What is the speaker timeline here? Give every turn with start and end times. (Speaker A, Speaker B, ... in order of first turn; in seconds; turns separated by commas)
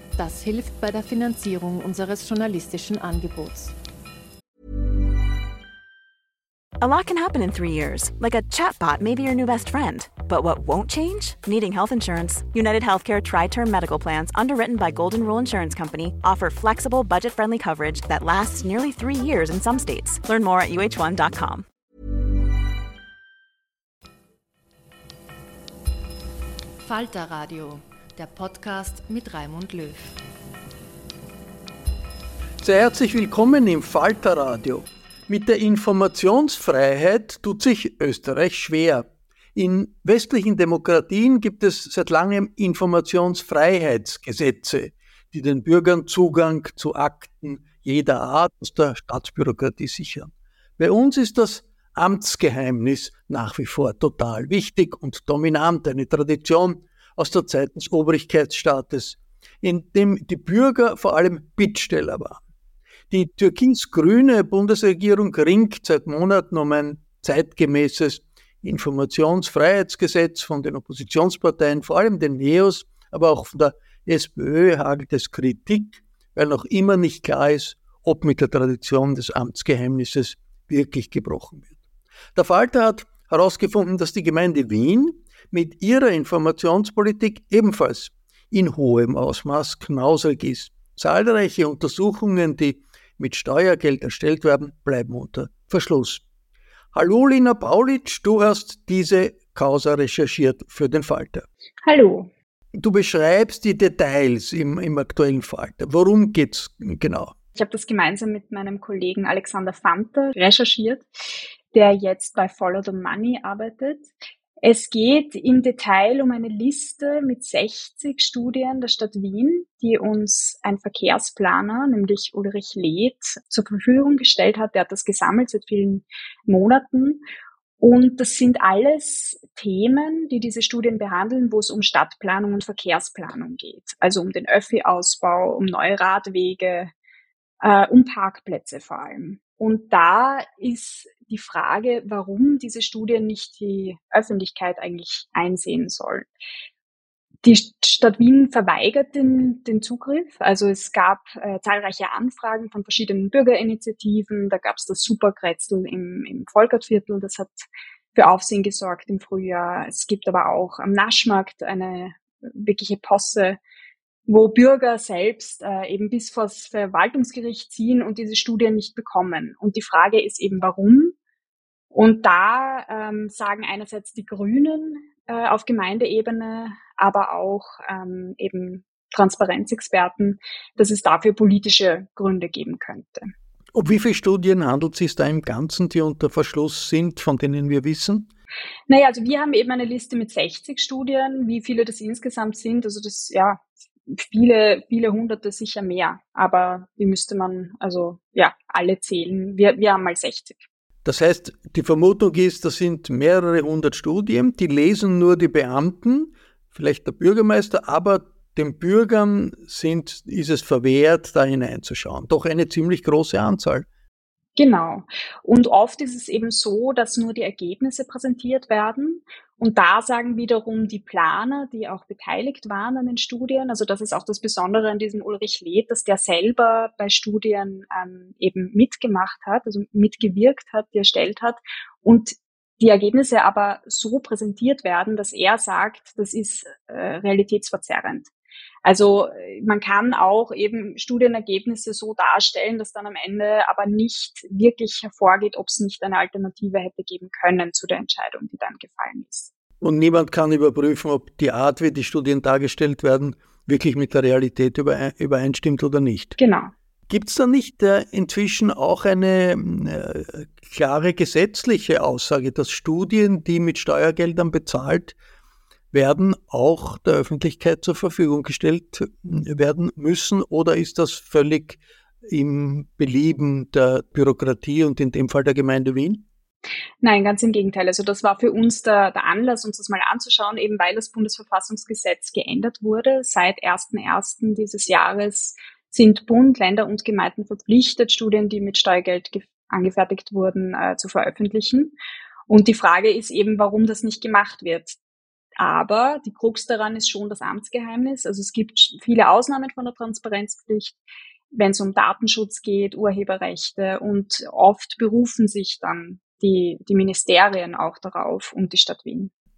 Speaker A: 0.2-3.7, Speaker B: 6.8-21.7, Speaker A: 26.9-30.2, Speaker C: 32.6-62.4, Speaker C: 63.1-81.8, Speaker C: 82.3-96.2, Speaker C: 96.9-101.5, Speaker D: 101.9-102.3, Speaker C: 102.8-107.3, Speaker D: 107.6-111.1, Speaker D: 111.7-127.2, Speaker D: 127.8-136.9, Speaker D: 137.6-146.3, Speaker D: 147.4-163.6, Speaker D: 164.3-171.2, Speaker D: 171.9-183.3, Speaker C: 183.7-188.3, Speaker D: 188.9-200.7, Speaker C: 201.1-213.9, Speaker D: 214.6-238.3, Speaker D: 238.8-249.5, Speaker C: 249.8-256.4, Speaker D: 256.4-256.7, Speaker C: 257.1-265.2, Speaker C: 265.9-276.2, Speaker D: 277.0-292.0, Speaker D: 292.5-295.0, Speaker D: 295.6-301.0, Speaker D: 301.5-309.3